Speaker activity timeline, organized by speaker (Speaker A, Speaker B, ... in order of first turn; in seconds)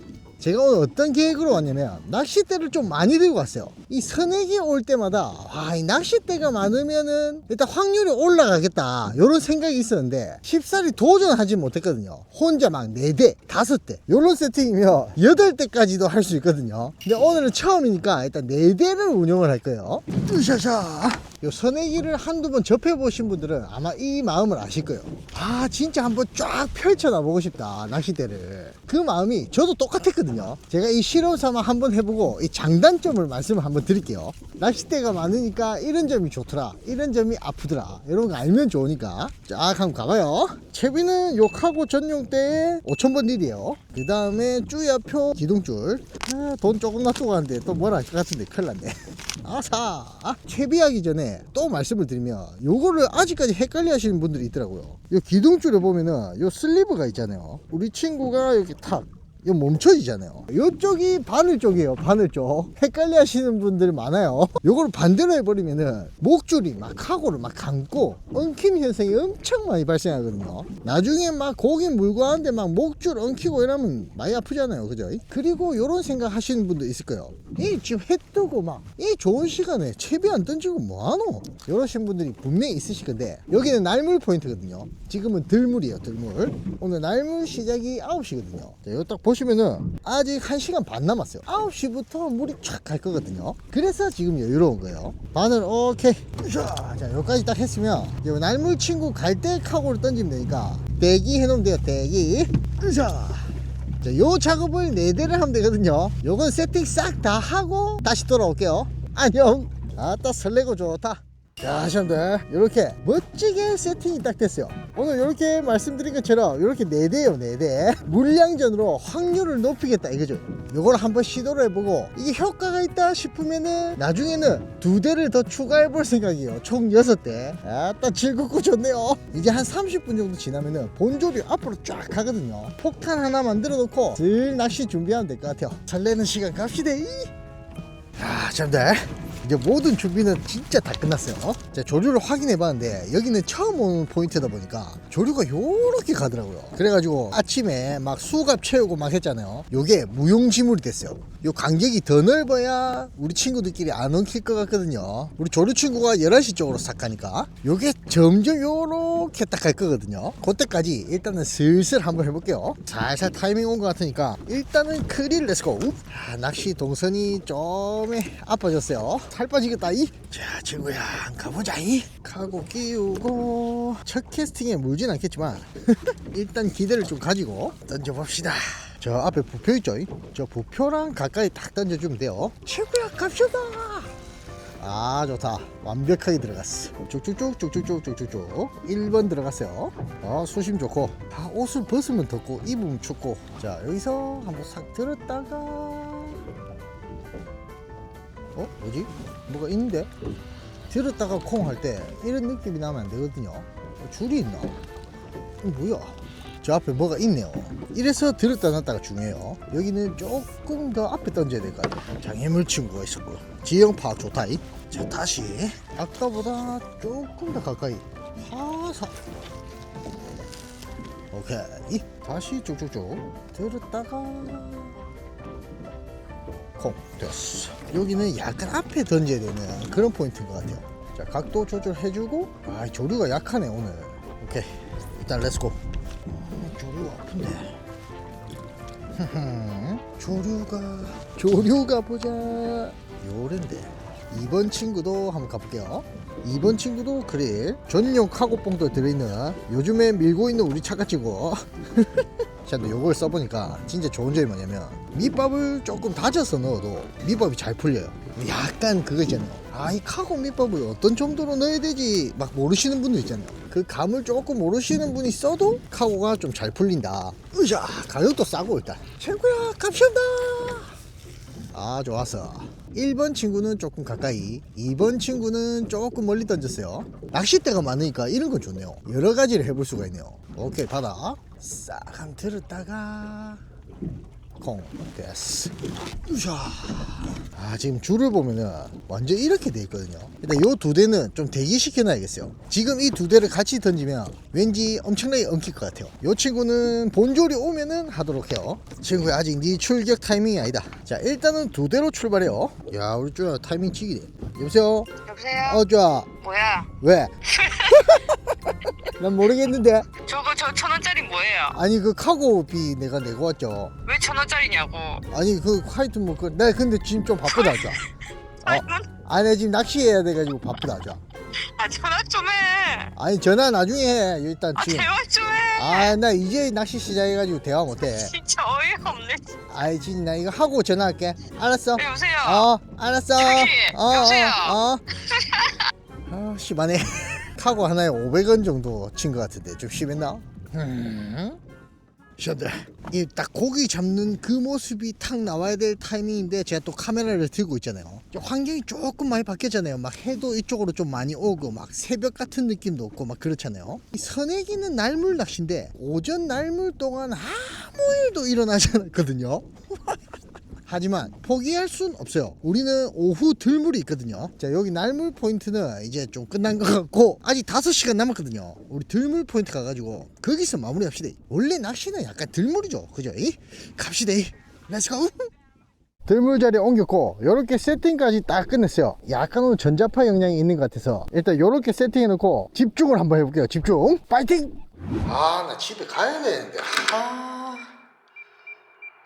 Speaker A: 0.4-137.3, 138.2-184.1, 184.8-196.4, 198.5-200.1, 200.9-204.8, 205.6-219.2, 221.3-225.0, 226.8-237.8, 239.1-270.9, 271.7-283.6, 284.6-305.1, 305.6-306.3, 307.0-307.3, 307.9-308.2, 309.1-310.1, 311.7-313.9, 315.3-318.0, 318.6-321.2, 323.1-325.1, 325.8-328.3, 329.7-335.0, 336.3-341.6, 342.4-360.2, 360.9-375.5, 376.2-387.9
Speaker B: 305.2-305.8, 306.4-306.9, 307.4-308.2, 310.2-311.8, 314.0-315.2, 317.5-318.1, 318.6-319.1, 321.7-323.1, 324.8-326.1, 328.1-329.5, 331.9-332.7, 333.4-335.9